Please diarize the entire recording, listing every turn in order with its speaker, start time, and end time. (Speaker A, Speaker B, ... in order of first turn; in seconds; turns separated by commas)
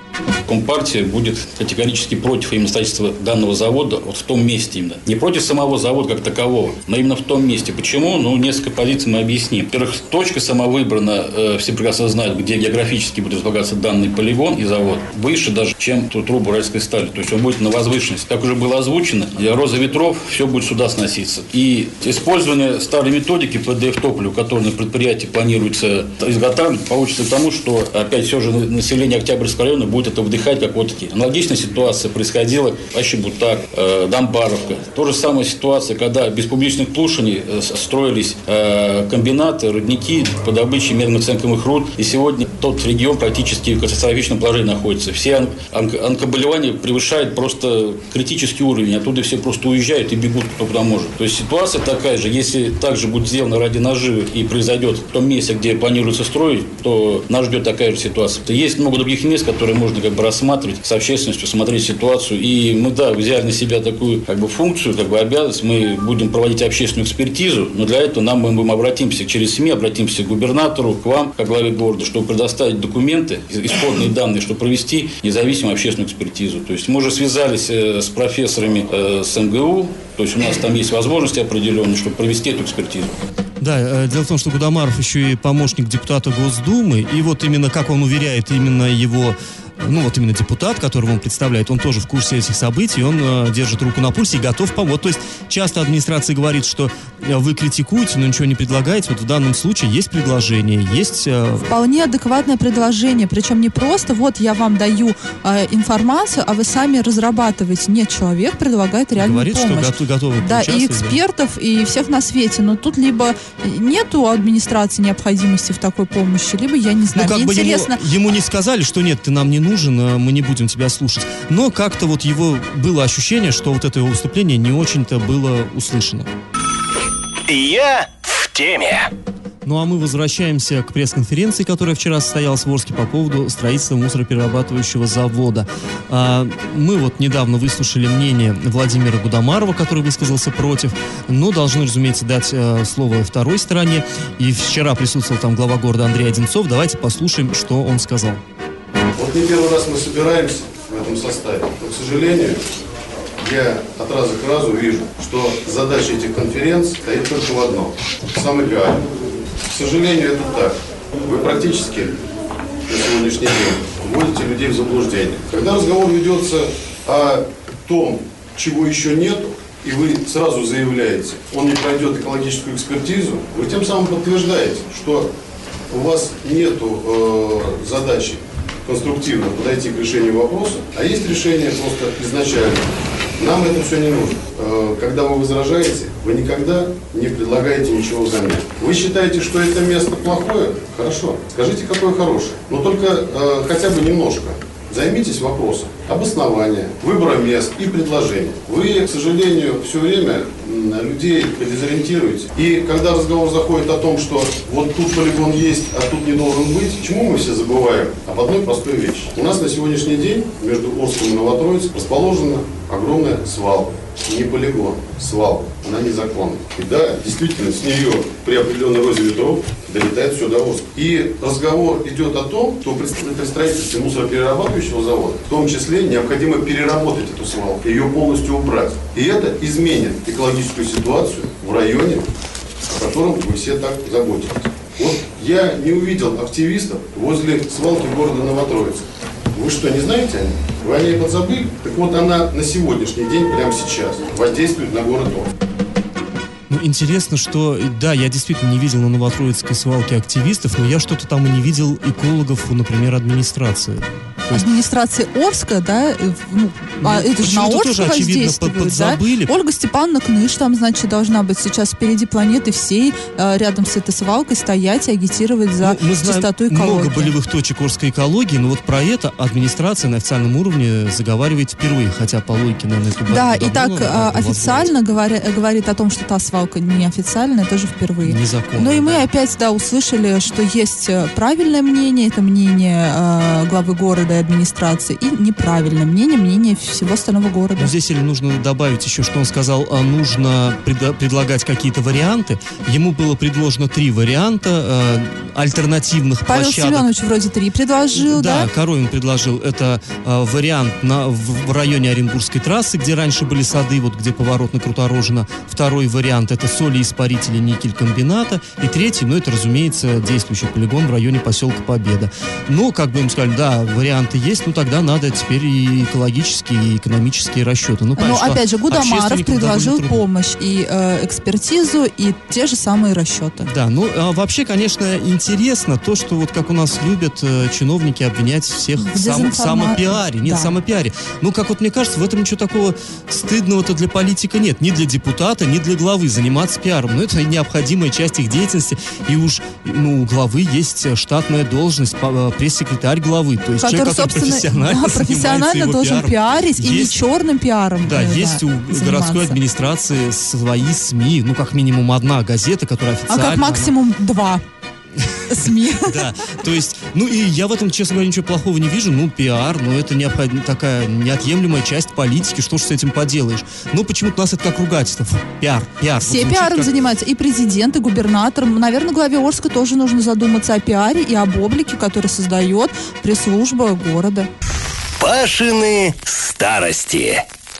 Speaker A: 0.5-83.1, Speaker B: 83.6-101.7, Speaker C: 101.6-118.0, Speaker B: 109.2-111.2, Speaker B: 117.1-126.3, Speaker D: 127.5-129.1, Speaker B: 129.6-148.4, Speaker E: 149.1-152.6, Speaker E: 153.4-159.1, Speaker E: 159.7-162.2, Speaker E: 162.9-175.3, Speaker E: 175.9-182.8, Speaker E: 183.4-232.3, Speaker E: 232.9-245.5, Speaker B: 246.7-254.7, Speaker C: 254.5-267.3, Speaker B: 257.0-259.5, Speaker B: 265.8-274.9, Speaker C: 273.3-287.9, Speaker B: 278.2-279.3, Speaker B: 287.8-297.1, Speaker C: 296.4-298.7, Speaker B: 298.1-320.2, Speaker C: 318.2-323.7, Speaker B: 323.6-347.2, Speaker C: 329.0-330.7, Speaker C: 343.8-349.6, Speaker B: 348.0-353.9, Speaker C: 353.3-354.6, Speaker B: 355.2-366.9, Speaker C: 355.5-356.2, Speaker C: 366.2-374.5, Speaker D: 375.2-377.4